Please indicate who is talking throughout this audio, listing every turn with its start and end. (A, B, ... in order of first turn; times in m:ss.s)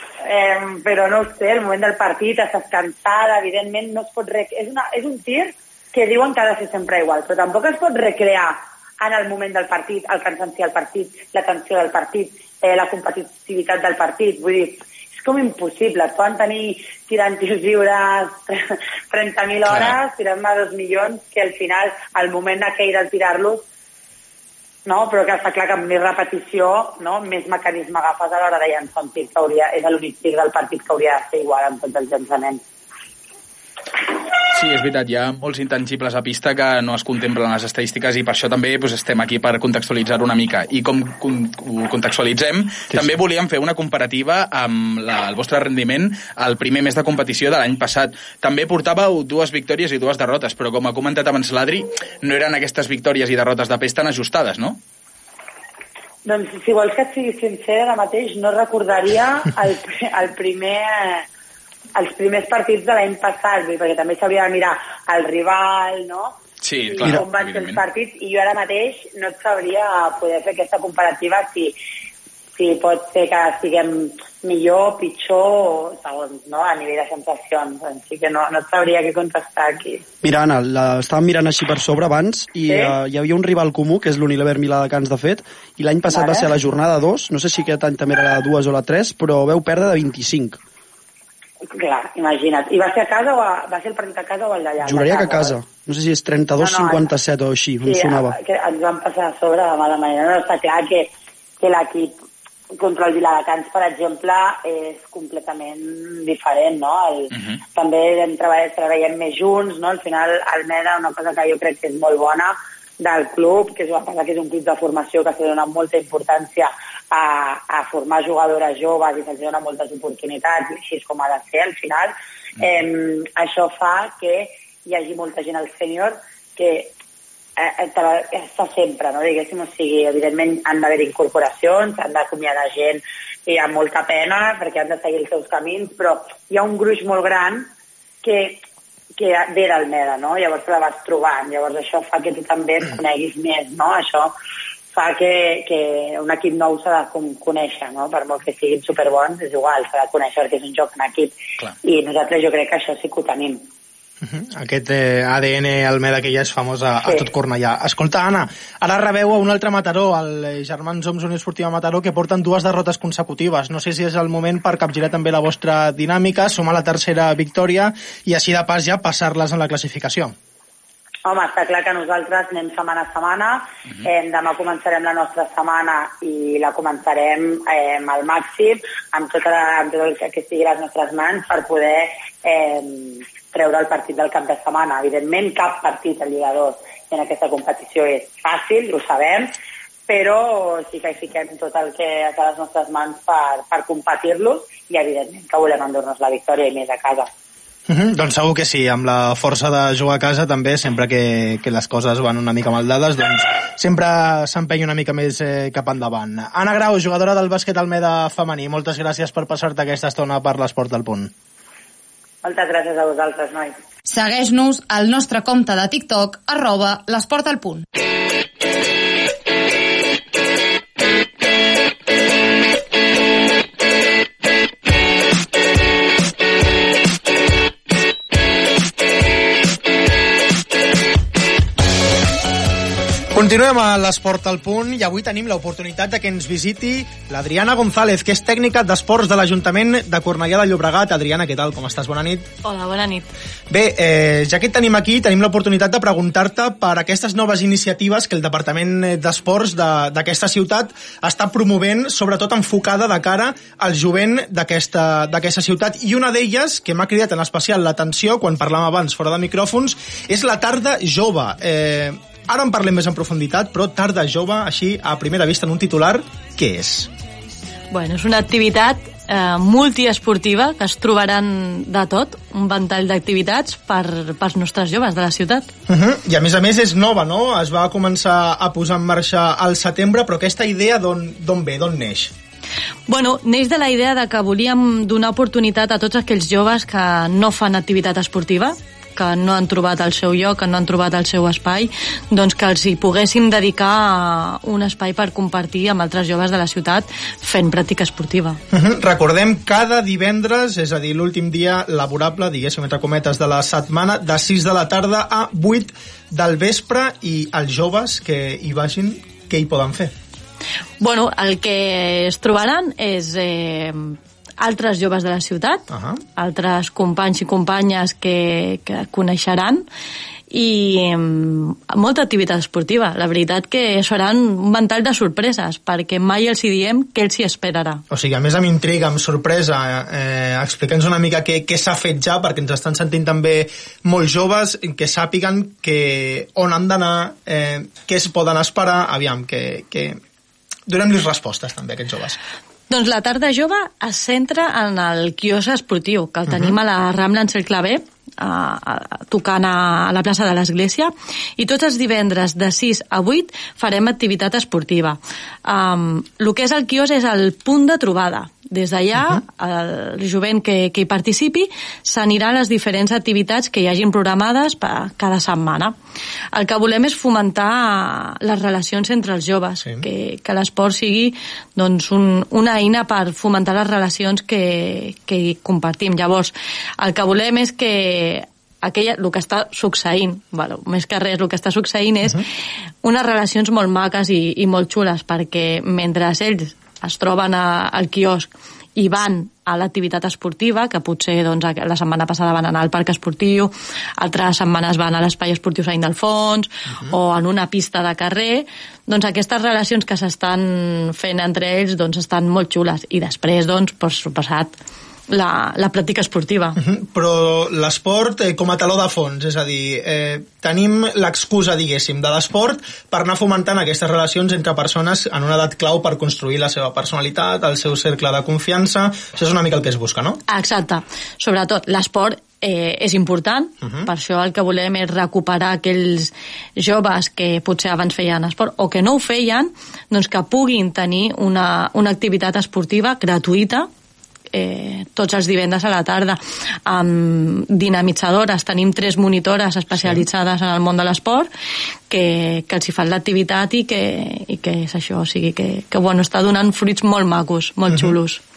0:00.2-0:23.6 A
0:19.6-0:20.0 B
0:24.8-0:32.6 A
0:34.5-0:54.8 B
0:56.2-1:01.3 A
1:02.0-1:06.4 A
1:06.6-1:07.8 B
1:07.0-1:11.8 A
1:12.6-1:20.0 A
1:20.2-1:30.6 C
1:22.7-1:23.0 A
1:26.1-1:26.5 A
1:31.7-1:35.6 A
1:34.8-1:38.4 C
1:36.6-1:37.1 A
1:37.8-1:42.1 A
1:42.7-2:06.9 A
2:07.6-2:17.7 A
2:18.2-2:18.6 A
2:19.2-2:24.4 A
2:24.9-2:33.7 A
2:34.2-2:50.4 D
2:51.3-3:09.5 A
3:10.1-3:17.3 A
3:17.9-3:31.3 D
3:32.4-3:33.8 A
3:34.1-3:37.8 E
3:53.3-4:02.5 D
4:02.6-4:03.3 F
4:03.7-4:27.1 D
4:27.9-4:35.7 F
4:35.9-4:42.3 D
4:43.1-4:58.6 F
4:58.7-5:10.1 D
5:11.0-5:19.8 F
5:15.9-5:16.2 D
5:20.5-5:28.0 F
5:28.1-5:40.2 D
5:40.9-5:42.4 D
5:42.9-6:05.9 F
5:46.5-5:46.8 D
6:06.5-6:22.4 F
6:23.0-6:44.7 F
6:45.3-6:46.8 F
6:46.8-7:00.4 D
7:00.5-7:13.9 F
7:14.5-7:21.5 F
7:19.9-7:20.2 D
7:22.1-7:28.4 F
7:27.9-7:28.2 D